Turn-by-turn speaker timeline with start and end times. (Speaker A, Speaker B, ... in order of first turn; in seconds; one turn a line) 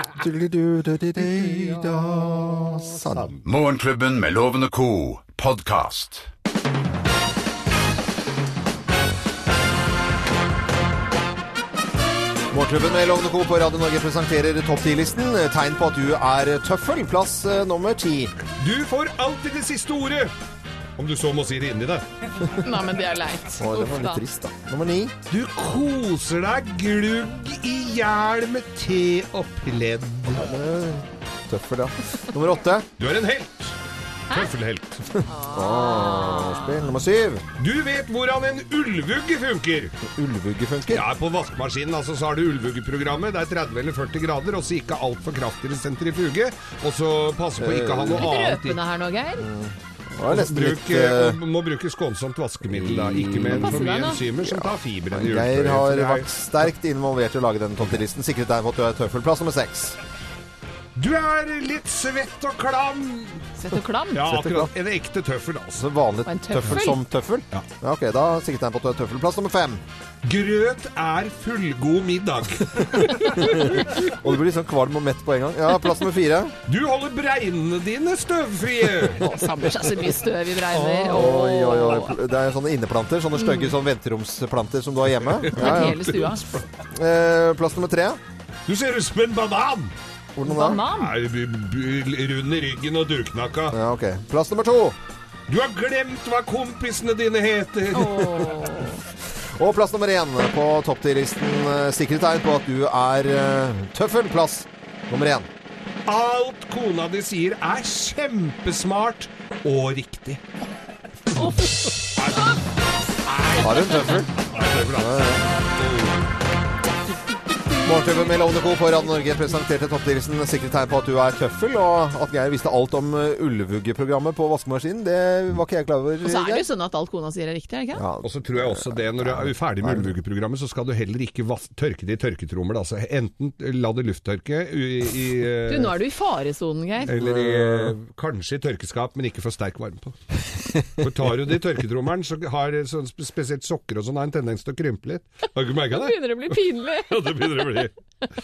Speaker A: 0.1-3.3
Speaker B: 1.2-3.4
Speaker C: 3.5-6.3
Speaker A: 12.5-18.4
Speaker B: 18.6-20.3
Speaker B: 21.0-22.1
Speaker D: 22.6-24.2
Speaker A: 23.6-25.1
Speaker B: 25.3-30.5
Speaker A: 30.3-32.9
Speaker B: 33.0-33.8
Speaker B: 34.3-35.0
Speaker A: 35.1-37.4
Speaker D: 35.3-36.8
Speaker B: 37.6-40.0
Speaker A: 40.1-41.1
Speaker B: 40.9-48.8
Speaker A: 47.6-48.2
Speaker D: 48.2-49.5
Speaker A: 49.4-51.4
Speaker B: 50.2-56.3
Speaker A: 52.7-60.0
Speaker D: 53.6-54.2
Speaker B: 61.0-63.5
Speaker D: 63.6-64.2
Speaker B: 64.1-65.9
Speaker A: 64.3-64.7
Speaker A: 65.8-69.8
Speaker D: 66.3-67.0
Speaker B: 70.2-74.1
Speaker A: 73.2-76.5
Speaker B: 76.7-79.3
Speaker D: 79.2-82.1
Speaker B: 80.7-81.2
Speaker A: 81.1-86.1
Speaker D: 83.4-83.7
Speaker B: 85.2-86.6
Speaker D: 85.6-86.5
Speaker A: 86.9-88.2
Speaker B: 88.7-89.9
Speaker A: 90.4-90.8
Speaker D: 90.5-91.1
Speaker B: 90.9-93.8
Speaker A: 93.7-95.0
Speaker B: 95.5-98.8
Speaker D: 97.9-99.0
Speaker A: 99.5-105.5
Speaker B: 106.1-110.4
Speaker B: 112.2-112.6
Speaker B: 113.3-113.9
Speaker A: 113.5-114.3
Speaker B: 114.5-116.3
Speaker A: 114.9-115.5
Speaker A: 117.8-126.7
Speaker D: 126.2-128.0
Speaker A: 127.9-130.1
Speaker B: 128.2-136.0
Speaker D: 135.7-137.1
Speaker B: 137.1-140.2
Speaker A: 137.1-137.9
Speaker B: 140.9-146.6
Speaker D: 145.9-147.1
Speaker B: 147.1-147.9